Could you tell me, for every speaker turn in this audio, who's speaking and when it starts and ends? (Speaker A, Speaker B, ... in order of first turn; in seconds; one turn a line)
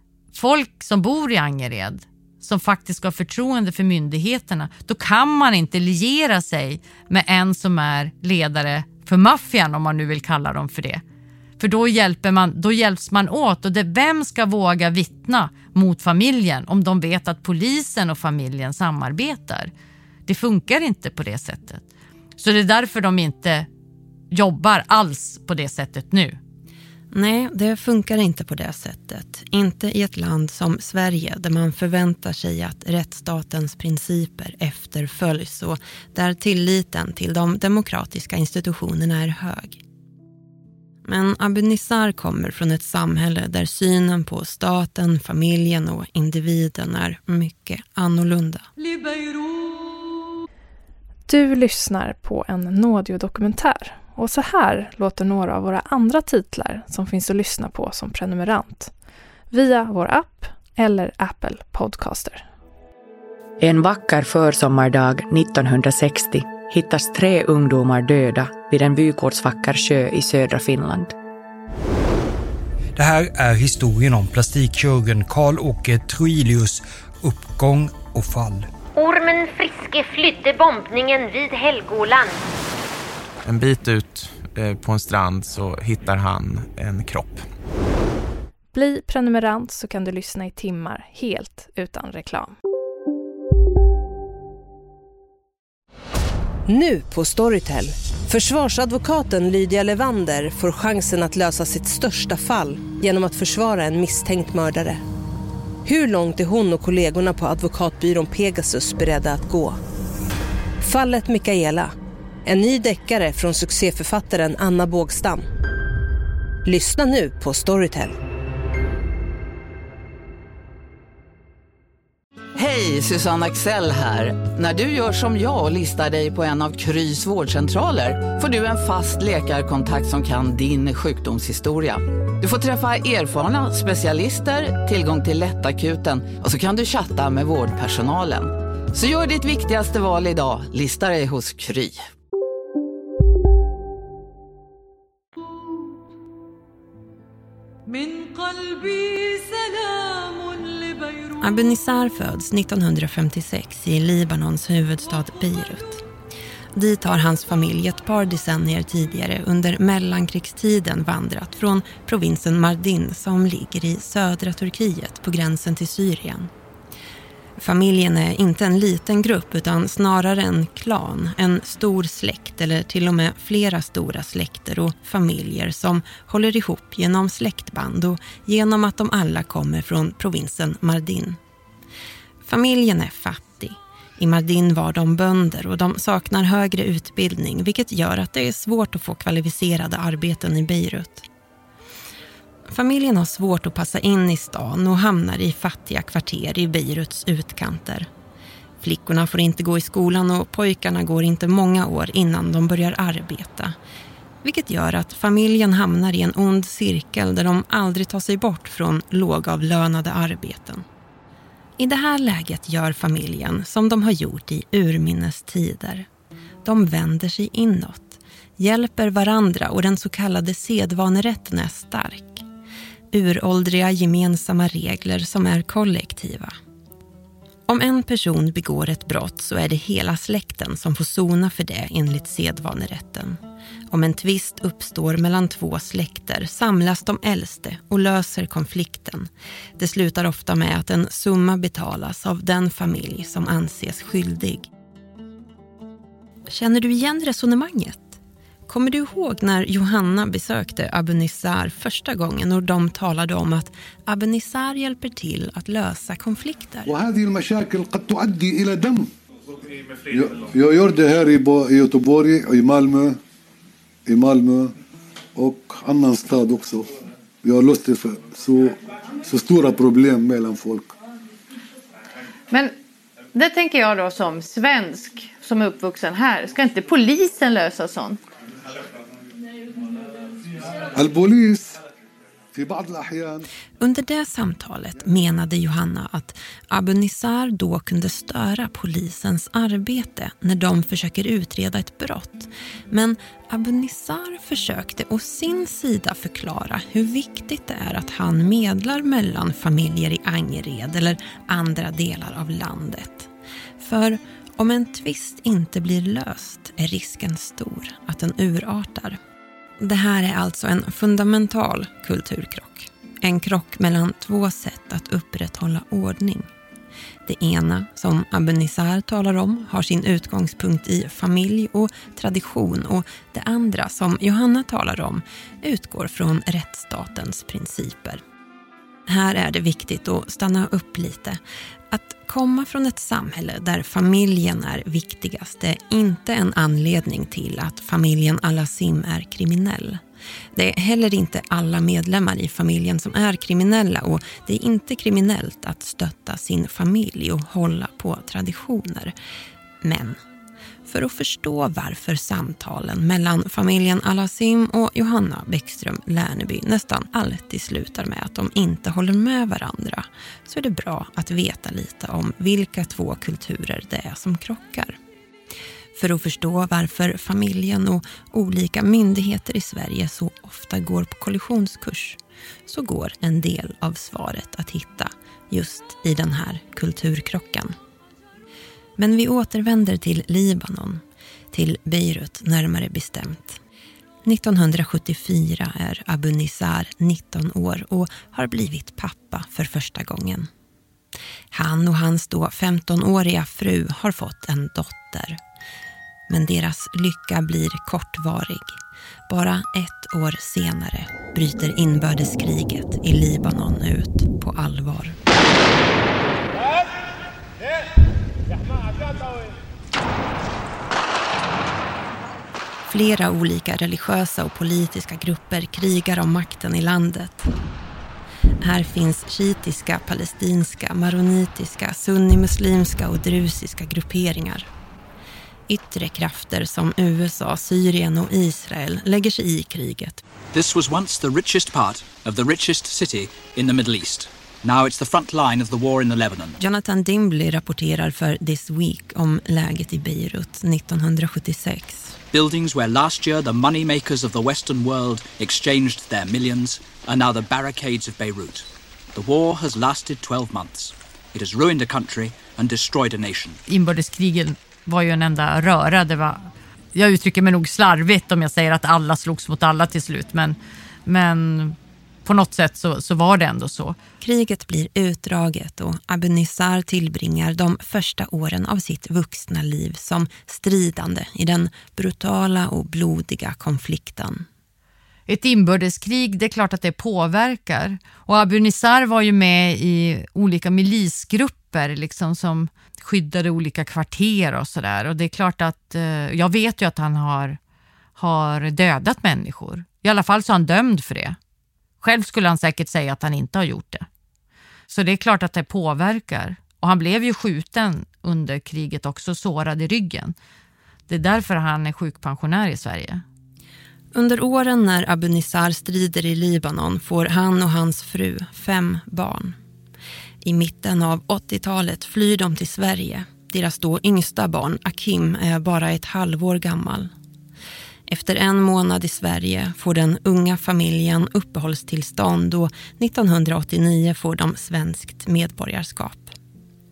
Speaker A: 0.3-11.0
Speaker A: 11.6-19.7
Speaker A: 20.3-21.8
Speaker A: 22.4-23.7
Speaker A: 24.3-26.4
Speaker B: 27.1-39.8
Speaker B: 41.0-48.7
Speaker C: 51.3-58.9
Speaker C: 59.5-62.4
Speaker D: 63.6-71.1
Speaker E: 73.0-78.7
Speaker F: 78.9-82.4
Speaker G: 83.4-87.4
Speaker C: 88.7-92.5
Speaker H: 96.7-105.0
Speaker H: 105.8-109.8
Speaker H: 110.8-111.9
Speaker H: 112.5-115.5
Speaker H: 116.7-118.2
Speaker I: 122.5-142.0
Speaker B: 151.3-156.0
Speaker B: 156.7-166.5
Speaker B: 167.6-181.4
Speaker B: 182.4-191.3
Speaker B: 192.7-198.1
Speaker B: 198.8-203.8
Speaker B: 204.4-210.8
Speaker B: 211.8-216.1
Speaker B: 216.6-222.4
Speaker B: 223.1-226.6
Speaker B: 227.7-233.4
Speaker B: 233.9-244.7
Speaker B: 246.5-256.9
Speaker J: 256.9-259.1
Speaker J: 260.0-263.2
Speaker J: 264.1-264.7
Speaker J: 265.4-266.9
Speaker J: 267.4-270.9
Speaker K: 273.3-278.2
Speaker J: 280.9-281.8
Speaker J: 282.5-283.4
Speaker B: 283.8-309.2
Speaker B: 309.8-316.5
Speaker B: 317.2-328.2
Speaker B: 329.1-340.0
Speaker B: 340.5-349.1
Speaker B: 349.8-350.2
Speaker B: 350.9-365.0
Speaker B: 365.9-377.7
Speaker B: 379.0-383.6
Speaker B: 384.2-390.5
Speaker B: 391.5-395.4
Speaker B: 396.3-405.2
Speaker B: 412.9-417.5
Speaker B: 418.6-424.7
Speaker B: 425.7-430.2
Speaker L: 430.5-436.6
Speaker B: 436.6-442.1
Speaker L: 442.3-453.6
Speaker A: 453.7-464.0
Speaker B: 464.2-474.4
Speaker A: 475.3-487.6
Speaker A: 488.2-491.4
Speaker A: 492.0-494.1
Speaker A: 494.9-500.3
Speaker A: 501.1-503.2
Speaker B: 504.1-509.6
Speaker B: 510.4-517.1
Speaker B: 518.1-526.3